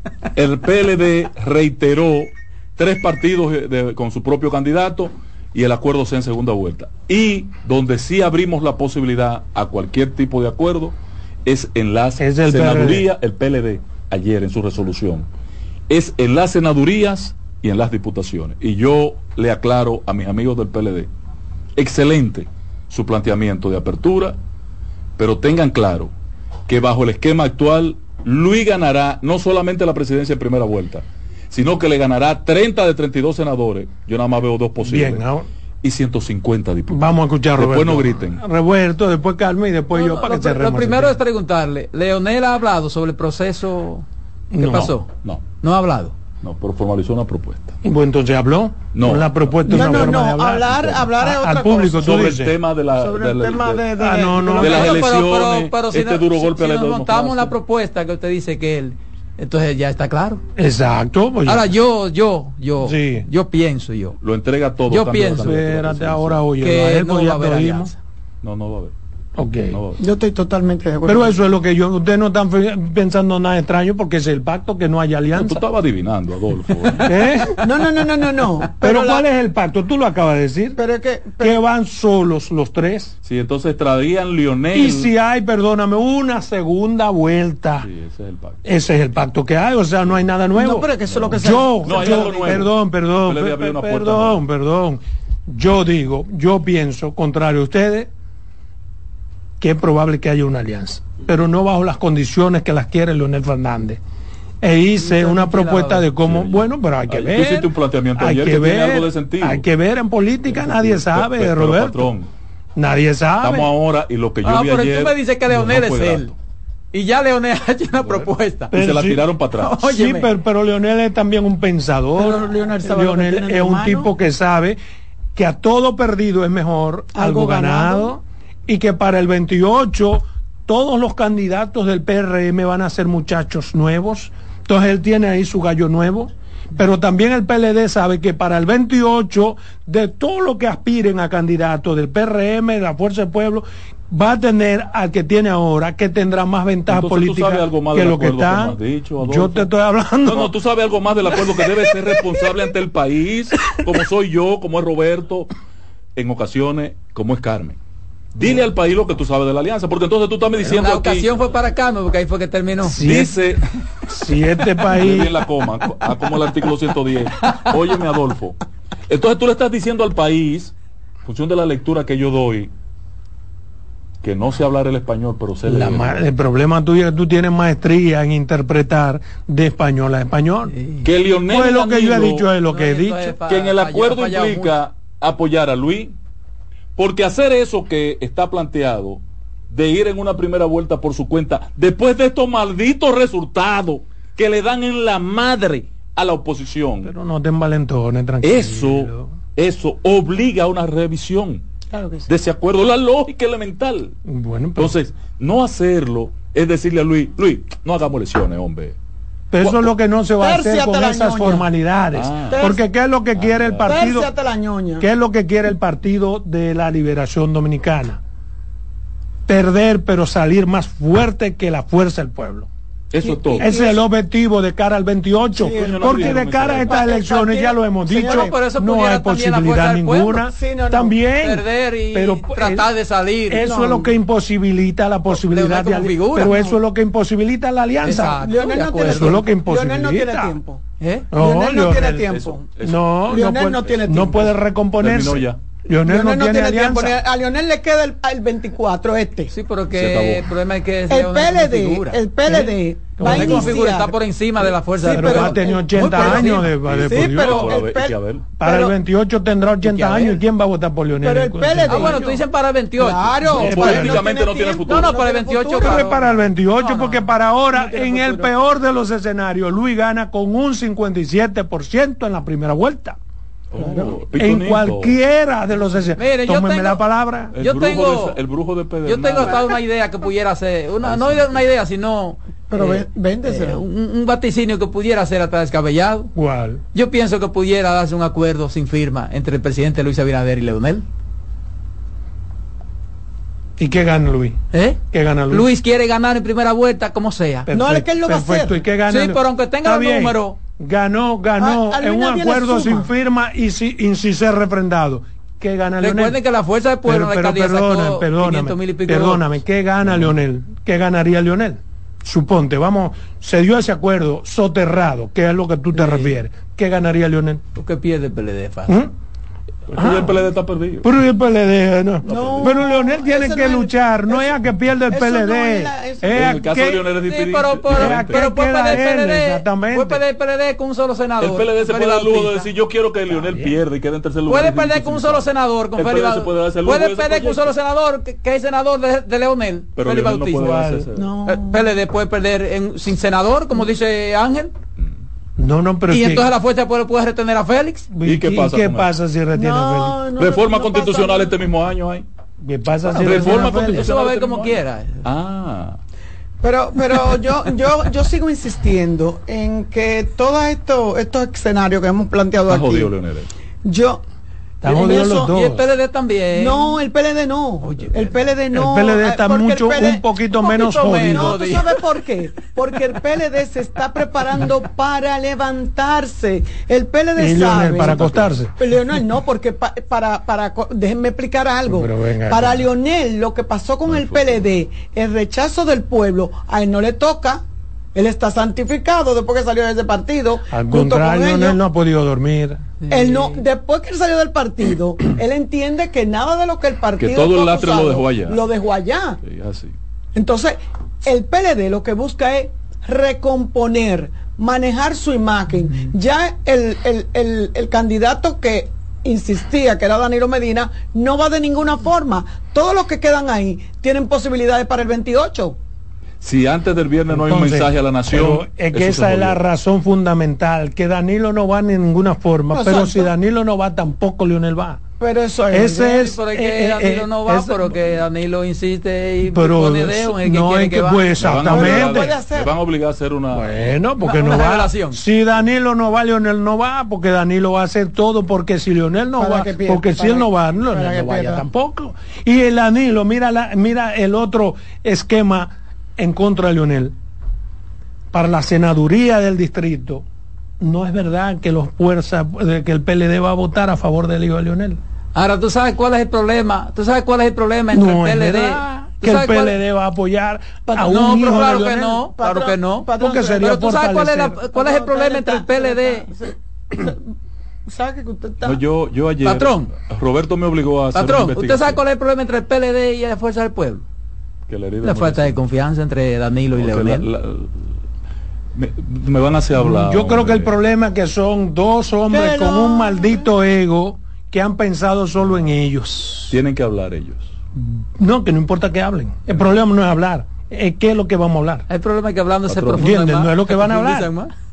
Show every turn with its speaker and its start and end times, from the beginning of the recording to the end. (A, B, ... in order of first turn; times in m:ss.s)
0:00.4-0:15.2 A
0:12.2-0:13.1 B
0:15.9-0:21.1 A
0:21.8-0:24.4 A
0:25.2-0:26.1 A
0:26.7-0:35.2 A
0:34.8-0:35.4 B
0:35.8-0:38.4 A
0:36.9-0:41.2 B
0:39.9-0:44.0 C
0:44.5-0:44.9 B
0:44.6-0:45.1 C
0:45.6-0:46.1 C
0:46.4-0:47.8 A
0:47.8-0:52.5 B
0:48.9-0:51.1 A
0:49.7-0:52.1 D
0:52.0-0:53.8 A
0:53.0-0:55.1 D
0:54.0-0:54.9 B
0:54.6-0:57.5 A
0:54.6-1:00.4 C
1:00.6-1:01.7 B
1:01.4-1:04.2 C
1:02.8-1:03.2 B
1:04.2-1:06.4 A
1:04.9-1:05.6 C
1:05.3-1:07.9 B
1:06.6-1:08.0 C
1:08.4-1:08.9 A
1:09.4-1:09.8 B
1:09.7-1:10.0 A
1:10.0-1:11.4 D
1:11.0-1:15.6 B
1:15.3-1:17.1 A
1:17.0-1:17.6 B
1:17.6-1:19.2 D
1:18.8-1:20.8 B
1:20.8-1:21.6 D
1:21.4-1:23.1 B
1:23.2-1:25.1 A
1:24.7-1:27.9 B
1:27.8-1:28.6 A
1:28.6-1:38.1 B
1:30.5-1:32.6 D
1:31.1-1:34.4 A
1:39.6-1:44.0 B
1:44.6-1:52.1 B
1:45.0-1:46.1 C
1:46.2-1:49.6 A
1:50.5-1:52.3 A
1:52.8-1:53.7 B
1:53.4-1:56.4 A
1:54.4-1:56.3 C
1:56.9-1:58.7 C
1:58.0-1:59.8 A
1:58.7-1:59.2 B
1:59.6-2:00.3 C
1:59.8-2:04.8 B
2:02.2-2:04.1 D
2:05.3-2:30.5 B
2:07.1-2:08.1 D
2:26.9-2:29.7 A
2:30.2-2:35.5 A
2:36.2-2:37.8 A
2:38.3-2:41.3 A
2:40.7-2:43.0 C
2:42.8-2:43.3 B
2:43.0-2:43.6 A
2:44.1-2:45.4 B
2:44.8-2:50.7 A
2:51.2-2:52.7 A
2:54.2-2:56.2 A
2:55.6-3:00.7 B
3:00.7-3:01.1 C
3:01.0-3:02.5 A
3:01.5-3:03.4 B
3:02.6-3:04.7 C
3:03.5-3:06.1 A
3:07.0-3:17.1 A
3:17.0-3:19.3 B
3:18.4-3:21.6 A
3:21.9-3:22.3 D
3:22.3-3:24.1 A
3:24.3-3:24.9 B
3:24.8-3:29.0 A
3:29.5-3:34.3 B
3:29.6-3:29.8 A
3:30.4-3:31.7 D
3:32.1-3:32.6 A
3:32.5-3:32.8 D
3:33.3-3:34.0 A
3:33.8-3:35.1 D
3:35.0-3:38.2 B
3:39.5-3:42.7 B
3:43.1-3:43.7 A
3:43.2-3:44.0 D
3:43.6-3:52.9 B
3:45.6-3:48.5 D
3:45.6-3:47.0 A
3:48.2-3:50.4 C
3:50.5-3:51.2 D
3:51.4-3:53.7 C
3:53.5-3:58.4 B
3:53.6-3:54.1 D
3:55.3-3:56.7 C
3:58.0-3:59.4 C
3:58.1-4:00.8 D
3:59.0-4:00.6 B
4:01.0-4:01.3 C
4:01.3-4:02.2 B
4:01.3-4:02.6 D
4:01.9-4:04.4 A
4:02.8-4:07.2 B
4:03.3-4:04.5 D
4:05.0-4:05.6 A
4:06.1-4:09.5 D
4:09.5-4:16.7 C
4:09.9-4:10.5 A
4:11.1-4:14.1 D
4:13.2-4:13.8 B
4:15.0-4:17.7 B
4:15.0-4:18.9 D
4:16.8-4:18.4 A
4:18.6-4:22.4 B
4:19.9-4:20.4 C
4:21.2-4:22.3 D
4:21.9-4:24.1 C
4:23.0-4:26.1 D
4:23.5-4:25.2 A
4:23.5-4:24.2 B
4:24.9-4:28.4 C
4:25.8-4:33.2 B
4:33.7-4:35.2 A
4:33.8-4:34.1 D
4:34.3-4:37.5 B
4:36.2-4:37.0 C
4:37.5-4:39.6 A
4:37.6-4:38.4 C
4:39.0-4:46.3 C
4:41.0-4:41.7 A
4:42.7-4:43.8 D
4:46.3-4:46.8 B
4:46.9-4:51.0 C
4:53.8-4:54.6 B
4:54.7-4:55.0 C
4:55.1-4:55.7 B
4:55.5-4:57.7 C
4:57.6-5:06.4 B
4:57.7-4:58.8 D
4:59.1-5:00.6 C
5:01.6-5:03.1 D
5:06.0-5:09.4 C
5:07.0-5:17.6 B
5:15.9-5:16.4 C
5:17.8-5:19.0 C
5:19.9-5:21.1 A
5:19.9-5:20.4 B
5:21.0-5:27.1 B
5:22.3-5:24.5 D
5:22.3-5:22.6 A
5:25.1-5:26.5 D
5:26.3-5:28.4 A
5:27.2-5:32.7 C
5:27.9-5:30.2 B
5:31.4-5:37.7 A
5:33.3-5:33.8 B
5:34.5-5:40.9 C
5:40.0-5:41.2 A
5:40.6-5:41.0 B
5:41.1-5:41.9 D
5:41.4-5:44.7 C
5:45.6-5:46.5 B
5:46.1-5:48.1 C
5:48.1-5:50.2 B
5:48.2-5:49.1 A
5:49.5-5:51.5 D
5:50.4-5:52.2 A
5:52.6-5:54.1 B
5:53.1-5:55.2 C
5:53.2-5:56.0 A
5:56.6-6:03.1 D
6:02.7-6:03.5 A
6:03.8-6:04.2 D
6:04.8-6:05.9 B
6:04.9-6:05.5 D
6:05.0-6:06.9 C
6:06.6-6:10.2 D
6:07.8-6:08.5 C
6:08.7-6:11.6 B
6:10.6-6:12.0 C
6:11.2-6:27.6 D
6:17.4-6:18.7 B
6:18.0-6:18.5 A
6:21.9-6:22.9 B
6:24.1-6:24.6 A
6:28.1-6:31.8 D
6:30.7-6:32.8 B
6:33.0-6:33.6 C
6:33.1-6:39.4 D
6:37.2-6:38.6 A
6:39.4-6:39.9 A
6:40.3-6:55.8 D
6:56.4-6:59.6 A
6:57.3-7:05.0 B
7:02.7-7:03.3 D
7:05.2-7:06.2 D
7:05.7-7:07.9 B
7:06.1-7:11.5 C
7:09.5-7:12.3 B
7:11.4-7:13.9 A
7:11.7-7:12.7 D
7:13.5-7:27.1 B
7:14.2-7:15.2 C
7:19.4-7:21.6 D
7:28.3-7:30.2 B
7:30.8-7:35.0 B
7:35.3-7:39.8 C
7:37.9-7:42.2 B
7:41.0-7:43.1 C
7:41.3-7:43.7 D
7:43.2-7:44.6 B
7:43.6-7:46.3 C
7:44.7-7:47.3 D
7:47.9-7:48.8 D
7:48.6-7:52.0 A
7:49.4-7:49.9 C
7:51.1-7:54.0 C
7:54.7-7:55.6 A
7:55.0-7:57.3 C
7:56.7-7:57.9 A
7:58.7-8:00.7 A
7:59.7-8:06.6 B
8:02.3-8:03.5 D
8:06.5-8:07.5 A
8:07.8-8:11.8 B
8:11.9-8:14.5 C
8:12.7-8:13.1 A
8:12.9-8:14.3 B